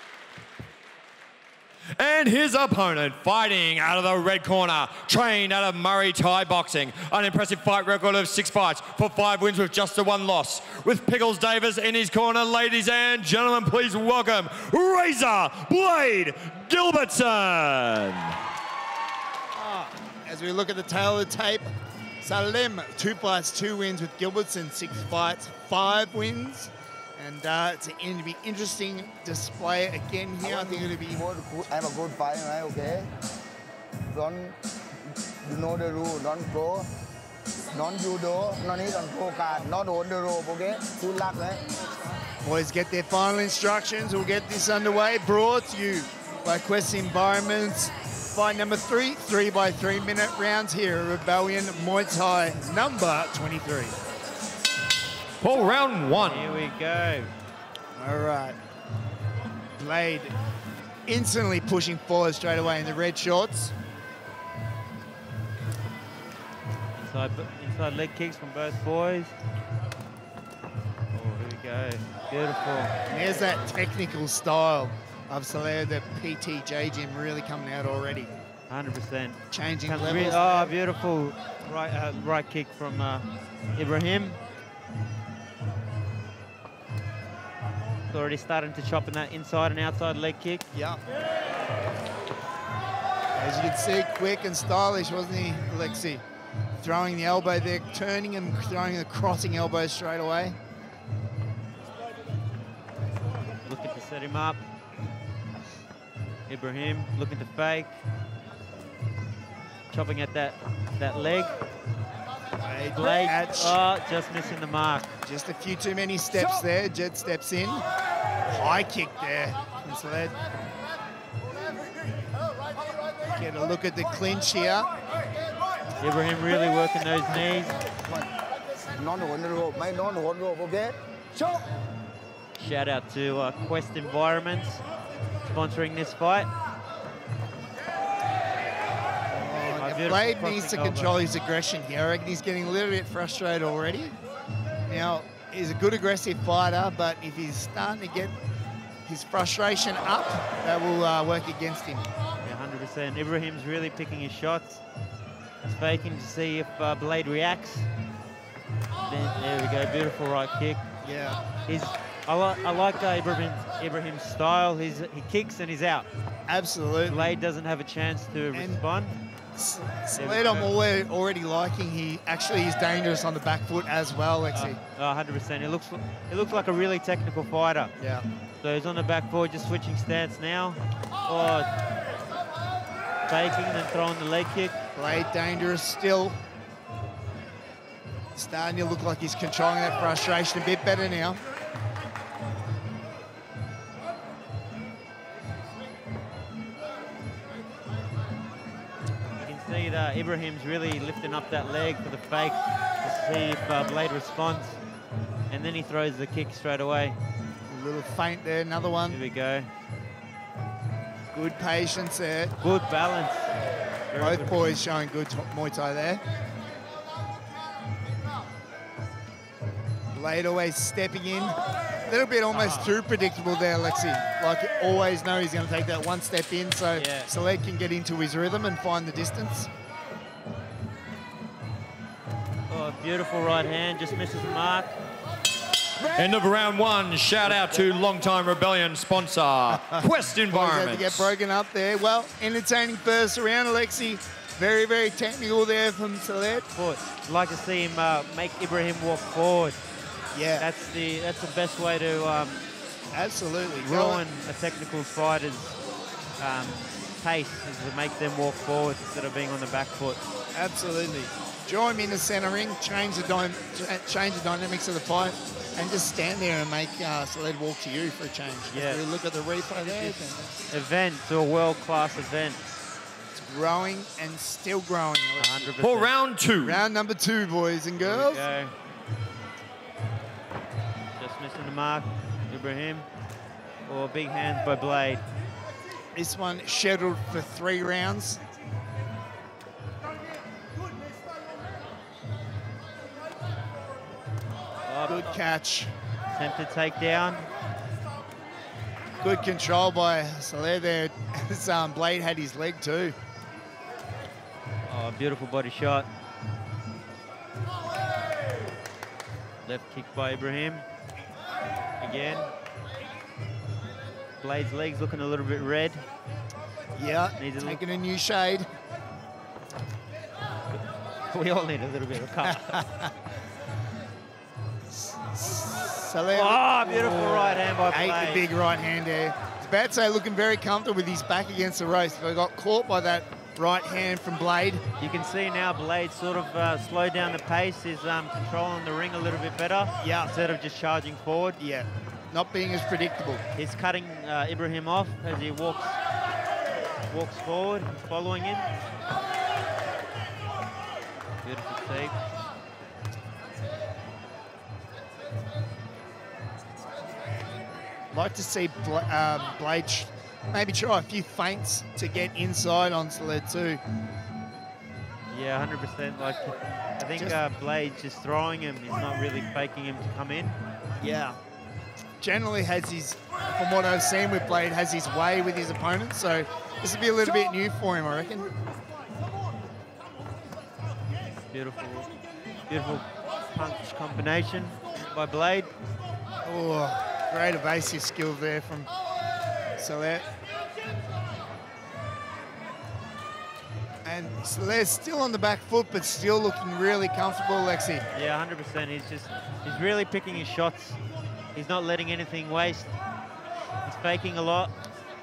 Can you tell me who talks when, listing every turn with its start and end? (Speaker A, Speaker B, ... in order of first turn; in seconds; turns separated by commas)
Speaker A: 1.9-18.4, Speaker B: 19.5-21.7, Speaker B: 22.2-31.2, Speaker C: 30.4-33.1, Speaker C: 34.1-34.6, Speaker C: 35.4-36.9, Speaker C: 37.7-41.6, Speaker B: 42.4-54.0, Speaker A: 55.4-56.6, Speaker D: 56.2-57.3, Speaker B: 58.0-58.6, Speaker B: 59.8-60.3, Speaker B: 61.0-63.7, Speaker D: 67.0-69.3, Speaker D: 71.1-73.0, Speaker B: 73.1-78.3, Speaker D: 78.7-84.4, Speaker B: 79.5-80.7, Speaker D: 88.1-90.6, Speaker B: 90.7-91.0, Speaker B: 93.3-96.2, Speaker B: 96.8-100.6, Speaker D: 103.7-104.6, Speaker D: 106.5-108.0, Speaker D: 109.9-111.5, Speaker B: 112.6-113.8, Speaker D: 113.0-115.1, Speaker B: 115.2-117.8, Speaker B: 118.5-120.4, Speaker B: 123.3-124.9, Speaker D: 126.0-127.8, Speaker C: 128.1-131.6, Speaker D: 132.6-134.8, Speaker D: 135.4-136.5, Speaker B: 139.3-144.2, Speaker D: 139.8-141.2, Speaker B: 144.8-148.3, Speaker B: 149.1-152.1, Speaker D: 152.4-154.8, Speaker D: 155.6-157.9, Speaker D: 159.1-160.8, Speaker B: 161.0-161.4, Speaker D: 161.6-166.1, Speaker B: 166.5-167.3, Speaker D: 167.1-169.2, Speaker B: 168.5-168.8, Speaker B: 169.5-174.8, Speaker D: 170.2-170.7, Speaker D: 174.5-177.9, Speaker B: 178.0-178.2, Speaker D: 178.6-181.7, Speaker D: 183.3-184.8, Speaker B: 184.9-186.4, Speaker B: 188.3-191.4, Speaker D: 199.4-204.8, Speaker D: 205.5-207.2, Speaker B: 207.7-209.2, Speaker D: 209.1-209.7, Speaker B: 211.3-212.6, Speaker D: 212.6-213.5, Speaker D: 214.1-214.7, Speaker B: 214.2-216.2, Speaker B: 220.1-229.7, Speaker D: 222.5-222.9, Speaker D: 226.9-227.3, Speaker D: 232.7-234.9, Speaker A: 236.1-241.3, Speaker B: 239.7-246.7, Speaker D: 246.7-249.8, Speaker B: 250.3-250.7, Speaker D: 250.6-252.6, Speaker B: 253.1-254.2, Speaker D: 253.7-255.8, Speaker D: 256.4-260.2, Speaker B: 260.5-270.6, Speaker D: 268.7-269.0, Speaker D: 269.8-272.8, Speaker B: 273.3-275.7, Speaker D: 275.4-276.1, Speaker A: 275.8-276.8, Speaker B: 276.6-278.4, Speaker D: 278.0-278.7, Speaker D: 281.2-283.1, Speaker D: 283.9-285.2, Speaker B: 286.1-288.4, Speaker D: 294.9-295.4, Speaker B: 295.1-295.9, Speaker D: 296.3-297.4, Speaker B: 299.2-303.1, Speaker D: 304.9-306.1, Speaker D: 309.6-310.8, Speaker D: 312.0-312.5, Speaker D: 314.4-316.0, Speaker B: 316.9-318.7, Speaker D: 317.4-317.8, Speaker D: 321.3-322.8, Speaker B: 322.4-323.1, Speaker B: 324.9-334.8, Speaker D: 326.3-328.5, Speaker D: 335.0-341.6, Speaker B: 340.0-340.3, Speaker B: 341.6-343.4, Speaker D: 343.5-346.0, Speaker D: 347.1-348.7, Speaker D: 351.4-352.2, Speaker B: 358.1-363.8, Speaker D: 365.3-370.6, Speaker B: 371.0-371.4, Speaker B: 372.2-378.5, Speaker D: 381.5-382.1, Speaker D: 382.7-385.7, Speaker B: 386.4-388.9, Speaker B: 389.8-390.2, Speaker B: 394.0-398.0, Speaker D: 398.1-401.0, Speaker D: 401.5-402.9, Speaker D: 403.8-404.7